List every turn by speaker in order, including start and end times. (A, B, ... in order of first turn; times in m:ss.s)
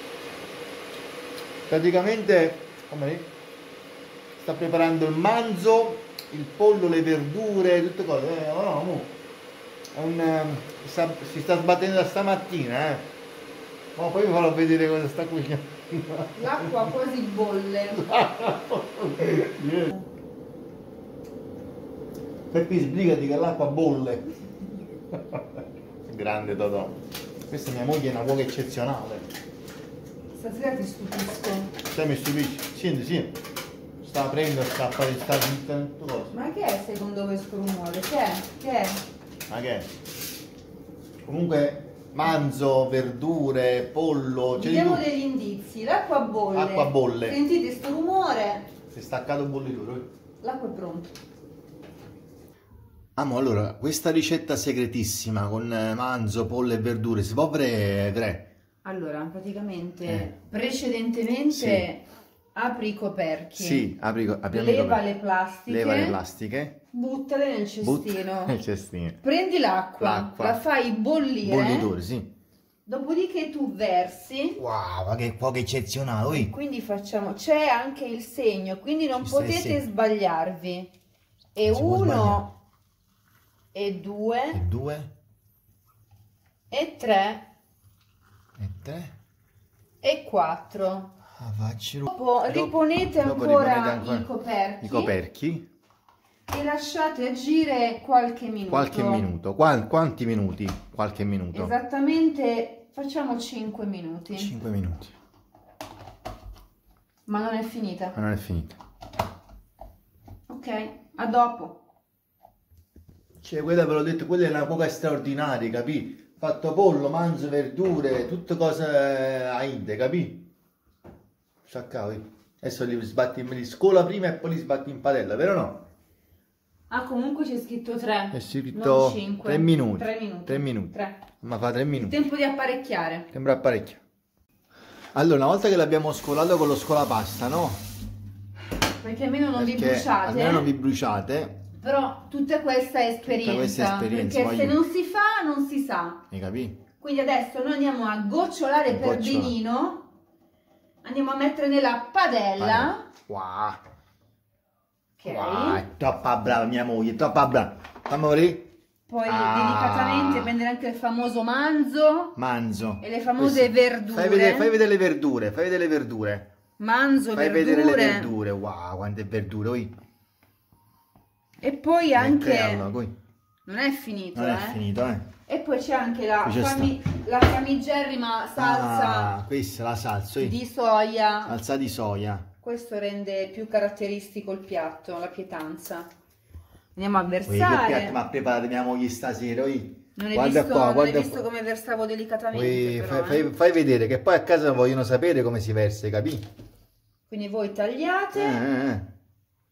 0:01.7-0:03.3 A
0:04.4-0:09.2 A
0:09.9-0:13.1 A
0:14.0-0:16.8 A
0:16.4-0:18.1 B
0:18.0-0:20.0 A
0:22.5-0:24.3 A
0:26.0-0:27.0 A
0:27.5-0:29.3 A
0:30.3-0:31.7 B
0:31.9-0:33.4 A
0:34.0-0:36.3 A
0:36.3-0:39.0 B
0:39.5-0:39.9 A
0:41.2-0:45.0 A
0:44.6-0:48.7 B
0:46.5-0:47.4 A
0:48.9-0:50.1 A
0:50.4-0:51.2 B
0:53.2-0:58.5 A
0:58.8-1:03.9 B
1:01.5-1:01.9 A
1:03.5-1:05.0 A
1:04.5-1:06.2 B
1:05.7-1:06.8 A
1:06.9-1:08.6 B
1:07.8-1:09.2 A
1:09.2-1:11.9 B
1:10.0-1:10.6 A
1:11.4-1:12.3 A
1:12.9-1:14.6 B
1:14.6-1:16.5 A
1:16.3-1:20.9 B
1:19.2-1:19.8 A
1:21.6-1:22.5 B
1:21.6-1:22.5 A
1:23.7-1:24.6 B
1:24.5-1:25.1 A
1:26.7-1:27.5 B
1:28.6-1:29.1 A
1:30.0-1:31.1 B
1:31.4-1:34.3 A
1:32.1-1:35.2 B
1:34.8-1:35.7 A
1:36.5-1:39.2 B
1:38.7-1:41.7 A
1:41.5-1:44.5 B
1:44.4-1:45.1 A
1:47.3-1:48.2 B
1:48.2-1:48.8 A
1:50.5-1:51.8 B
1:53.4-2:00.5 A
2:01.7-2:05.8 A
2:06.9-2:11.2 B
2:08.3-2:12.2 A
2:12.0-2:13.3 B
2:13.3-2:14.0 A
2:15.1-2:17.8 A
2:19.0-2:20.7 B
2:19.6-2:21.6 A
2:21.8-2:26.2 B
2:23.2-2:24.8 A
2:26.3-2:26.8 A
2:27.0-2:30.1 B
2:28.9-2:29.6 A
2:31.0-2:33.1 B
2:32.6-2:33.8 A
2:35.2-2:35.8 B
2:35.2-2:38.7 A
2:39.1-2:42.4 B
2:39.3-2:40.6 A
2:42.4-2:46.5 A
2:43.0-2:44.7 B
2:46.8-2:48.3 B
2:47.4-2:49.9 A
2:51.6-2:52.9 B
2:52.2-2:53.1 A
2:53.7-2:54.8 B
2:54.4-2:55.3 A
2:55.5-2:59.4 B
2:56.4-2:57.0 A
2:58.6-3:00.6 A
3:00.4-3:01.6 B
3:01.5-3:02.5 A
3:02.6-3:06.1 B
3:07.0-3:08.2 B
3:07.5-3:11.4 A
3:10.2-3:13.5 B
3:12.5-3:16.4 A
3:17.3-3:18.7 B
3:18.3-3:19.1 A